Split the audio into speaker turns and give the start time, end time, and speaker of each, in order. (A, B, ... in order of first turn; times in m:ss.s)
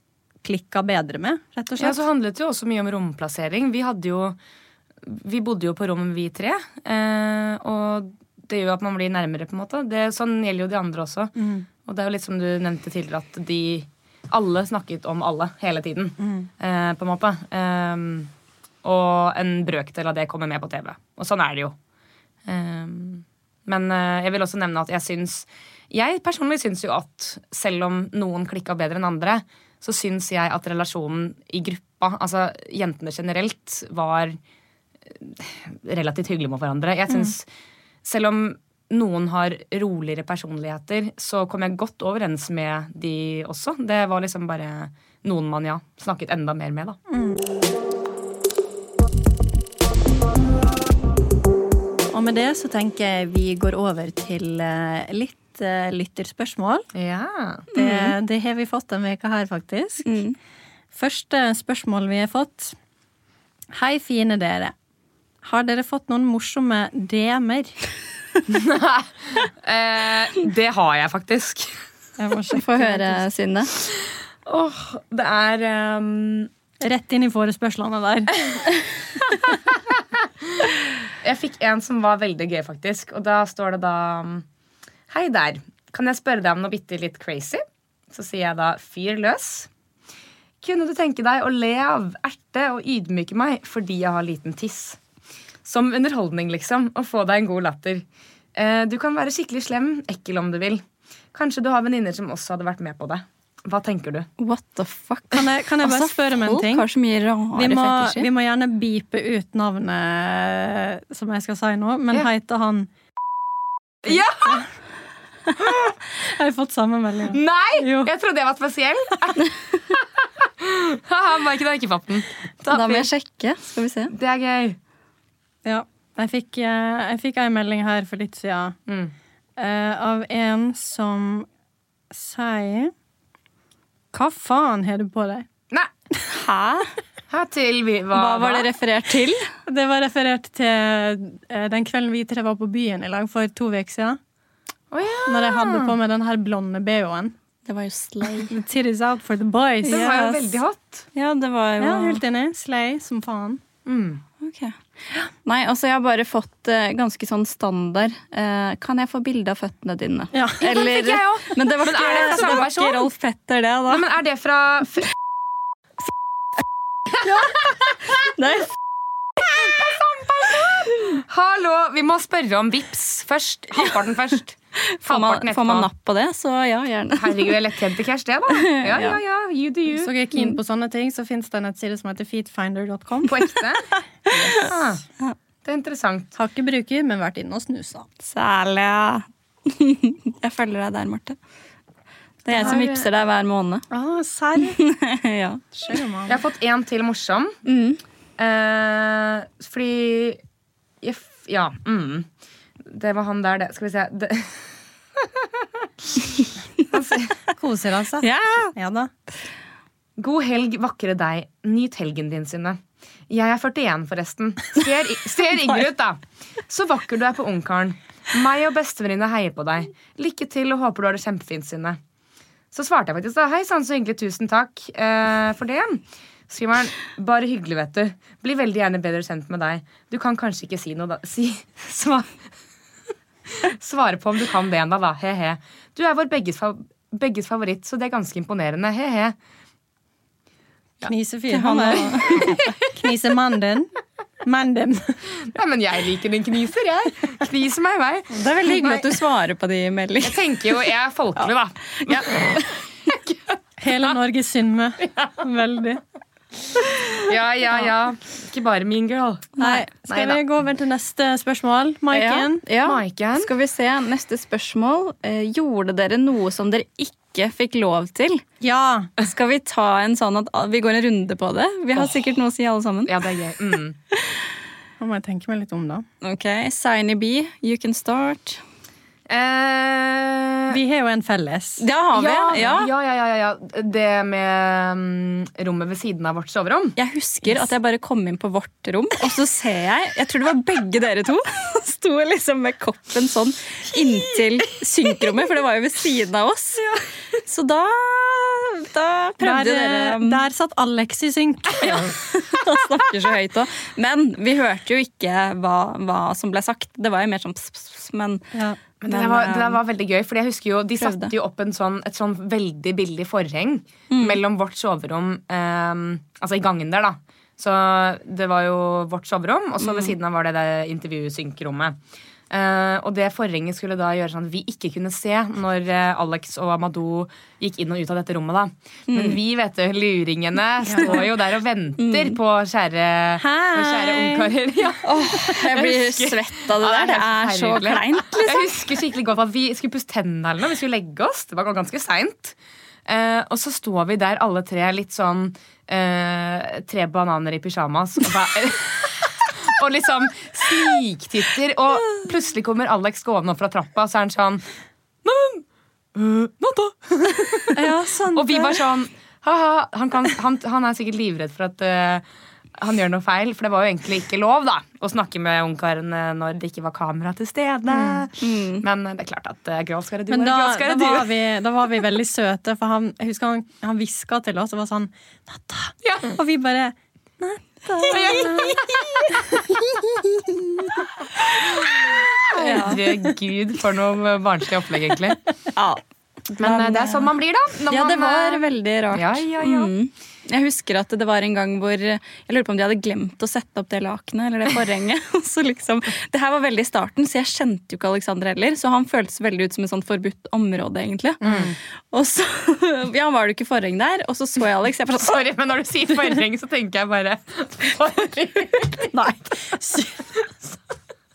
0:00.4-0:02.0 A
0:01.8-0:04.4 B
0:05.0-0:18.3 B
0:11.4-0:11.7 A
0:16.2-0:16.5 A
0:18.8-0:21.8 B
0:22.5-0:34.4 B
0:35.1-0:37.5 B
0:38.0-0:47.0 B
0:47.1-0:47.4 A
0:52.1-0:56.9 A
0:57.0-0:57.7 B
0:57.7-0:58.1 C
0:57.7-1:00.2 A
1:00.0-1:00.4 C
1:00.9-1:02.8 A
1:03.7-1:04.7 A
1:05.4-1:07.8 A
1:08.5-1:11.8 B
1:12.2-1:13.2 A
1:12.5-1:13.7 C
1:13.9-1:16.5 B
1:16.8-1:18.4 A
1:20.6-1:24.4 B
1:25.1-1:29.7 B
1:30.6-1:35.0 B
1:35.6-1:40.8 B
1:41.3-1:44.3 B
1:44.4-1:48.3 C
1:45.3-1:46.9 A
1:47.5-1:52.9 A
1:54.0-1:54.7 B
1:54.0-1:54.7 A
1:55.6-1:58.1 A
1:57.3-2:03.1 B
2:02.7-2:04.1 C
2:04.1-2:04.8 B
2:05.6-2:08.8 A
2:08.9-2:09.1 B
2:09.6-2:11.5 A
2:12.1-2:12.9 A
2:14.1-2:15.5 A
2:16.3-2:16.9 C
2:17.3-2:18.7 B
2:18.1-2:19.5 C
2:19.7-2:24.2 A
2:24.9-2:25.9 B
2:25.3-2:27.4 A
2:27.7-2:28.6 C
2:28.5-2:30.5 A
2:29.9-2:30.3 C
2:29.9-2:31.1 B
2:31.1-2:32.2 C
2:31.8-2:33.6 A
2:33.9-2:34.2 B
2:34.4-2:34.8 C
2:35.4-2:44.1 C
2:40.3-2:40.7 A
2:40.6-2:43.1 B
2:43.9-2:45.1 B
2:48.2-2:48.7 C
2:49.5-2:55.9 B
2:54.8-2:57.6 C
2:57.2-3:00.1 B
2:58.6-2:59.2 C
2:59.9-3:03.5 A
3:03.3-3:03.9 B
3:03.9-3:05.4 C
3:04.3-3:04.7 A
3:04.6-3:05.0 B
3:05.6-3:06.3 B
3:06.4-3:08.1 A
3:08.2-3:11.4 C
3:12.4-3:13.8 C
3:12.5-3:13.1 B
3:13.9-3:14.8 A
3:14.6-3:15.8 C
3:15.8-3:16.4 A
3:16.3-3:17.6 B
3:17.6-3:18.0 C
3:18.4-3:20.4 B
3:21.0-3:22.3 B
3:22.8-3:26.2 B
3:26.9-3:27.4 B
3:27.5-3:29.1 A
3:28.2-3:28.7 C
3:30.2-3:42.0 B
3:42.7-3:52.4 B
3:53.6-3:59.4 B
4:01.0-4:03.9 A
4:01.5-4:02.5 C
4:02.2-4:02.9 B
4:04.4-4:05.4 A
4:05.5-4:09.0 B
4:08.3-4:10.4 C
4:10.2-4:13.6 B
4:12.0-4:12.3 C
4:13.8-4:16.0 A
4:17.2-4:20.4 B
4:19.6-4:22.6 A
4:22.1-4:28.4 C
4:22.8-4:23.5 B
4:28.6-4:29.1 A
4:29.2-4:33.2 C
4:33.1-4:34.0 B
4:34.1-4:34.4 C
4:35.0-4:36.0 A
4:36.2-4:38.6 C
4:39.3-4:40.8 B
4:40.7-4:41.8 A
4:41.8-4:42.9 C
4:42.2-4:47.0 B
4:47.0-4:56.9 C
4:57.5-5:00.4 C
4:59.4-5:02.1 A
5:01.8-5:08.4 C
5:08.5-5:08.8 A
5:09.0-5:22.0 B
5:09.1-5:09.8 C
5:11.0-5:11.4 C
5:14.1-5:14.4 C
5:19.8-5:20.1 C
5:22.5-5:54.6 B
5:29.1-5:29.4 C
5:30.9-5:31.1 A
5:32.0-5:32.4 C
5:33.4-5:34.5 A
5:35.0-5:38.7 C
5:55.2-6:02.2 B
5:57.7-5:58.8 A
6:02.8-6:11.3 B
6:07.9-6:08.2 A
6:08.4-6:08.8 C
6:10.3-6:20.9 A
6:16.0-6:16.4 B
6:18.0-6:19.3 B
6:21.6-6:25.4 B
6:22.6-6:23.0 C
6:25.8-6:27.3 C
6:26.6-6:29.9 B
6:27.9-6:41.4 C
6:41.4-6:41.7 A
6:41.4-6:41.8 B
6:42.1-6:45.4 C
6:45.2-6:49.2 B
6:49.1-6:50.3 A